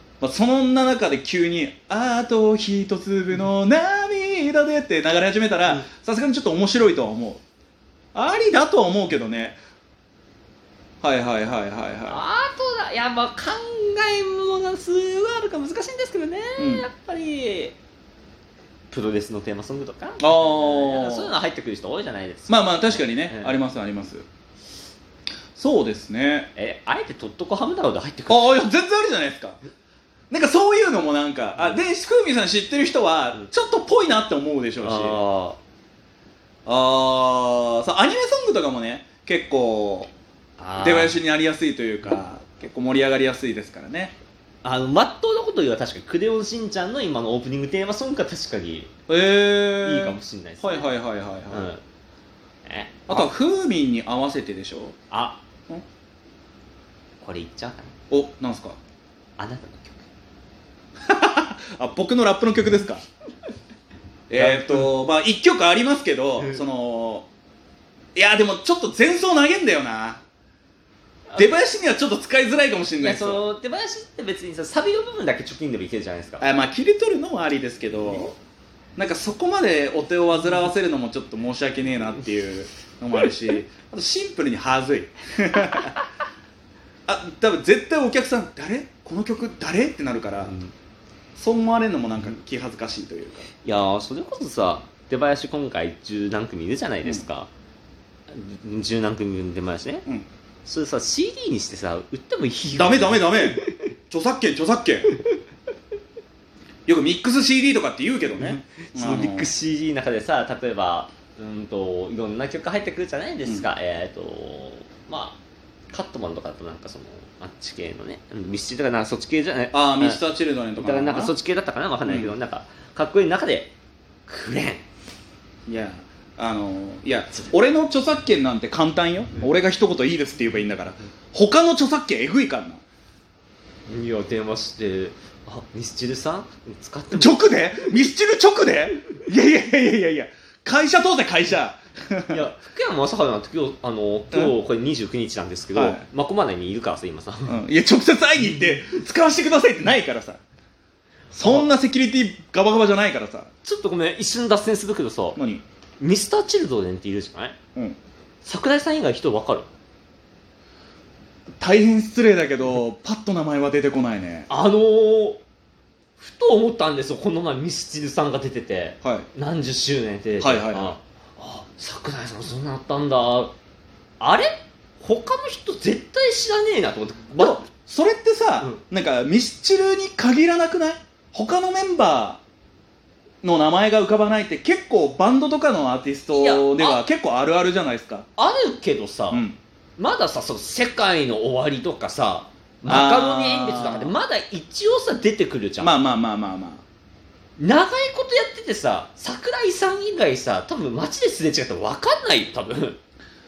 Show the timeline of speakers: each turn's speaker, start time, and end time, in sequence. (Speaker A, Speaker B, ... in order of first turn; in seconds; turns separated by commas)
Speaker A: 0.2-7.4, Speaker A: 8.1-9.6, Speaker A: 11.0-12.2, Speaker B: 12.1-17.8, Speaker A: 16.6-16.9, Speaker B: 18.9-23.6, Speaker A: 20.2-21.3, Speaker A: 22.5-24.2, Speaker A: 25.6-26.5, Speaker B: 26.6-28.6, Speaker A: 28.3-29.6, Speaker A: 30.3-35.2, Speaker B: 34.8-35.6, Speaker A: 36.6-40.1, Speaker B: 40.6-41.2, Speaker A: 40.8-44.1, Speaker B: 44.6-48.9, Speaker A: 49.1-51.7, Speaker B: 49.8-50.9, Speaker B: 51.5-51.8, Speaker B: 52.6-53.3, Speaker A: 53.1-54.9, Speaker B: 55.1-55.4, Speaker B: 57.2-57.9, Speaker A: 58.1-58.8, Speaker B: 59.4-60.1, Speaker A: 61.0-63.0, Speaker A: 64.3-67.3, Speaker B: 64.3-64.9, Speaker B: 66.4-66.6, Speaker A: 68.1-70.2, Speaker B: 71.3-71.6, Speaker A: 71.3-73.4, Speaker B: 73.0-76.5, Speaker A: 76.4-78.3, Speaker B: 78.0-78.3, Speaker A: 79.0-85.9, Speaker A: 87.1-90.6, Speaker B: 90.5-90.7, Speaker A: 91.3-93.5, Speaker B: 93.6-97.5, Speaker B: 98.3-100.0, Speaker B: 100.6-103.8, Speaker A: 102.7-105.1, Speaker A: 106.8-109.5, Speaker B: 108.4-115.4, Speaker B: 115.9-120.2, Speaker A: 119.7-121.3, Speaker B: 120.8-123.7, Speaker A: 122.0-122.3, Speaker B: 124.3-124.8, Speaker A: 125.7-132.8, Speaker B: 133.9-137.4, Speaker A: 137.1-142.4, Speaker B: 142.3-147.6, Speaker A: 145.7-146.0, Speaker A: 147.5-150.4, Speaker A: 151.3-153.5, Speaker B: 151.4-151.7, Speaker B: 153.6-155.4, Speaker A: 155.3-155.6, Speaker B: 156.0-157.6, Speaker B: 158.4-159.7, Speaker A: 161.6-164.5, Speaker B: 164.5-165.4, Speaker B: 166.2-173.5, Speaker A: 170.4-170.9, Speaker B: 174.2-177.7, Speaker A: 177.4-182.4, Speaker A: 183.4-188.2, Speaker B: 186.3-187.0, Speaker B: 188.4-189.4, Speaker A: 189.3-189.6, Speaker B: 190.0-196.0, Speaker A: 192.8-194.2, Speaker A: 195.8-196.8, Speaker B: 197.6-203.0